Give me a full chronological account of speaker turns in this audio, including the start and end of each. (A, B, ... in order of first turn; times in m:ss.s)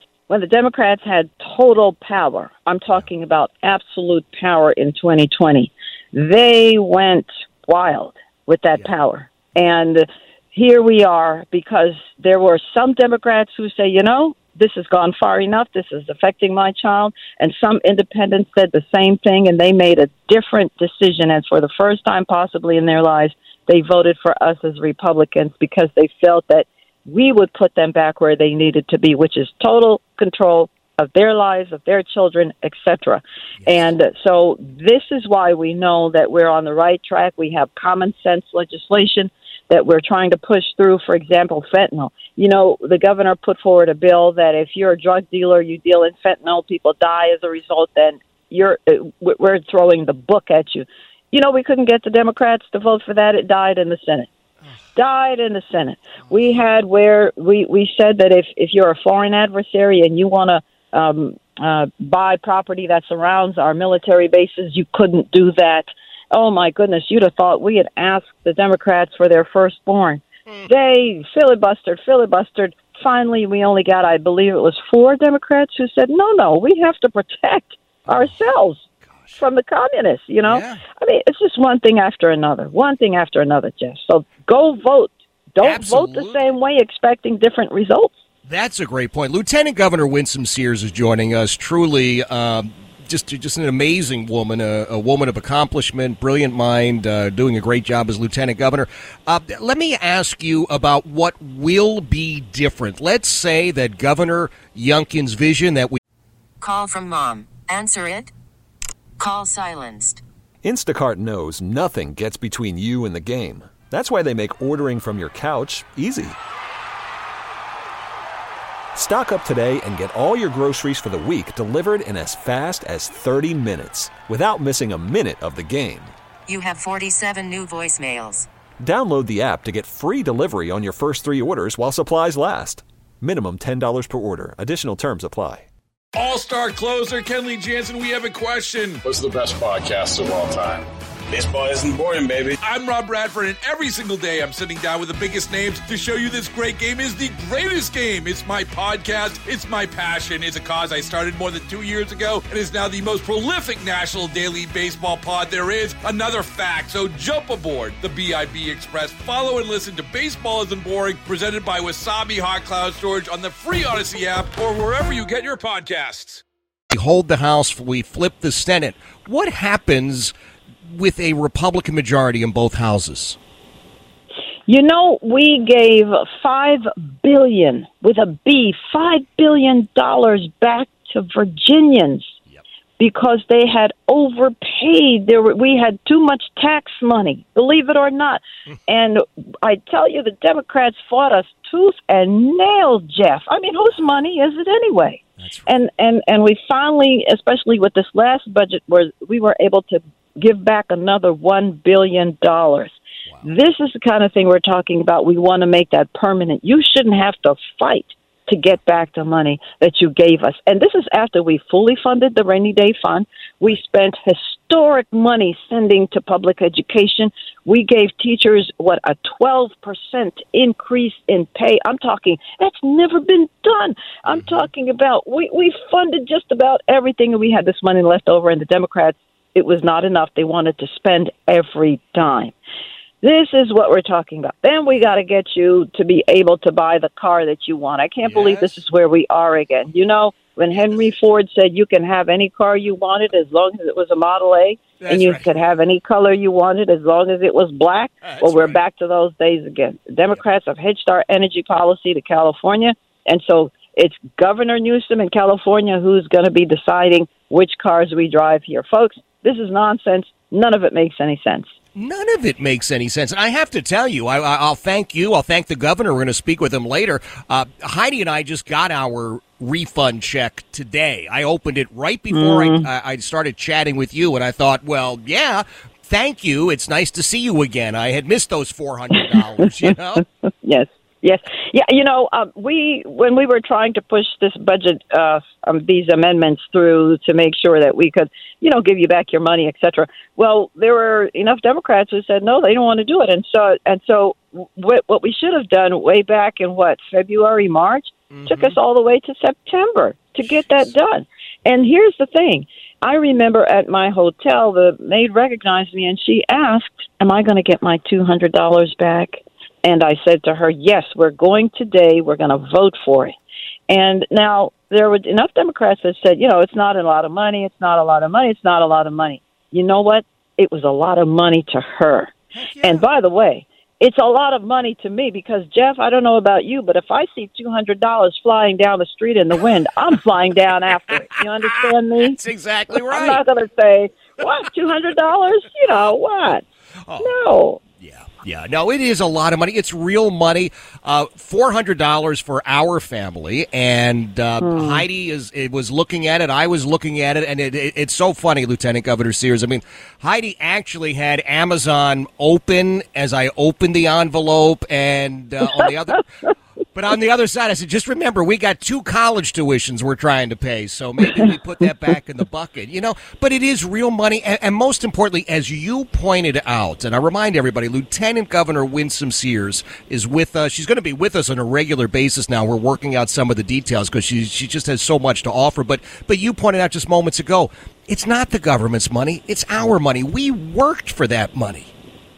0:00.3-0:54.3 A
0:33.6-0:33.9 B
0:55.0-1:18.8 A
1:18.1-1:19.4 B
1:19.4-1:28.1 A
1:20.4-1:20.8 B
1:25.6-1:26.5 B
1:28.4-1:46.0 B
1:46.6-1:48.3 C
1:49.2-1:50.2 C
1:50.6-1:56.4 D
1:58.9-2:06.1 D
2:06.5-2:08.5 C
2:08.8-2:15.7 D
2:16.1-2:19.0 E
2:19.0-2:22.6 F
2:22.6-2:46.4 E
2:46.9-2:50.3 B
2:50.9-2:53.4 B
2:54.7-3:02.3 A
3:03.0-3:52.5 A
3:13.9-3:14.2 B
3:15.4-3:15.8 B
3:44.2-3:44.7 B
3:53.2-4:21.7 A
3:58.2-3:58.8 B
4:00.7-4:01.1 B
4:05.0-4:05.6 B
4:08.2-4:08.8 B
4:21.9-4:40.2 B
4:32.3-4:32.9 A
4:40.5-5:13.4 A
4:58.3-4:58.8 B
5:00.4-5:00.9 B
5:13.9-5:32.4 A
5:22.5-5:23.0 B
5:32.2-5:33.4 B
5:32.9-5:36.6 A
5:37.1-5:37.4 B
5:37.2-5:37.8 A
5:38.0-5:56.2 B
5:44.6-5:45.0 A
5:56.9-6:21.9 B